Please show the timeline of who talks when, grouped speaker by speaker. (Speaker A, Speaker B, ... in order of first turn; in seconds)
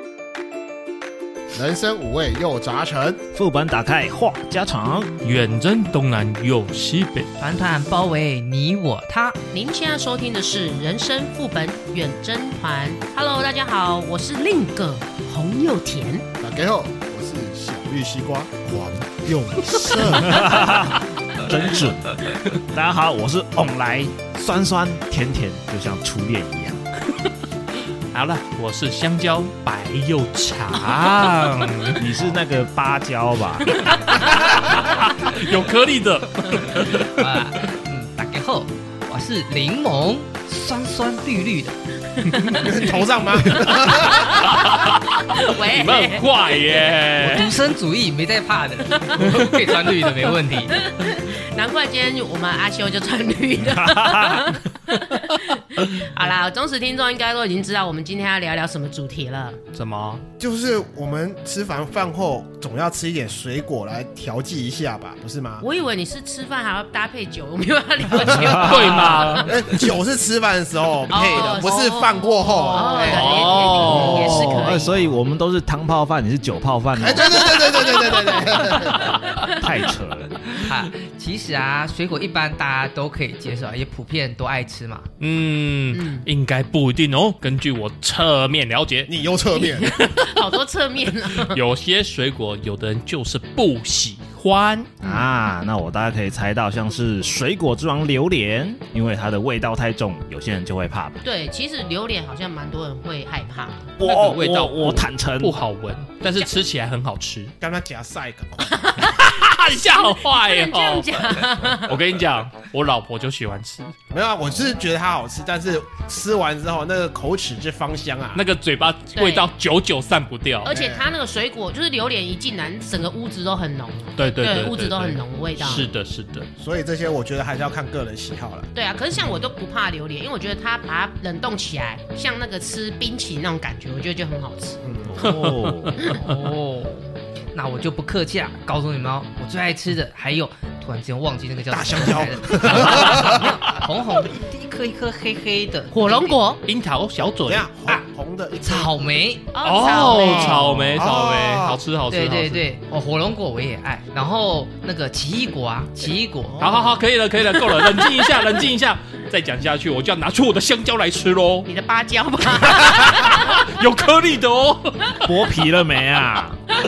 Speaker A: 1.5-3.2, 16.4-20.6, 42.6-44.4, 60.4-65.7, 69.5-74.2, 77.0-79.2, 89.1-89.9, 107.6-108.7, 114.1-118.4, 120.7-121.1, 126.6-128.7, 134.8-135.3, 141.7-143.5, 147.5-149.1, 150.1-151.8, 156.6-156.9
Speaker B: 3.3-5.2, 20.0-26.9, 32.0-33.9, 53.6-54.5, 68.3-69.3, 73.8-77.5, 79.0-80.5, 95.0-101.2, 104.0-105.6, 135.1-135.9, 165.2-166.6
Speaker C: 5.2-7.3, 28.1-32.0, 33.8-37.2, 42.3-42.6, 44.4-47.5, 49.2-49.7, 59.7-60.2, 68.6-69.5, 73.0-74.7, 85.2-89.1, 91.5-95.0, 104.0-107.5, 109.0-113.9, 118.3-120.7, 124.2-126.5, 135.2-136.4, 146.7-147.7, 149.6-152.7, 156.6-161.7, 162.7-165.3
Speaker D: 7.4-9.4, 37.0-41.8, 47.2-50.9, 80.5-85.1, 136.0-146.4, 148.6-149.6, 152.1-156.7
Speaker E: 9.5-16.3, 42.2-42.6, 44.0-44.5, 45.3-46.3, 50.7-59.6, 65.6-69.5, 71.1-74.9, 77.4-79.6, 85.9-86.2, 89.5-91.6, 101.2-103.9, 108.6-112.0, 119.1-119.5, 120.6-125.9, 128.7-134.8, 145.9-146.6, 149.5-150.7, 161.7-163.8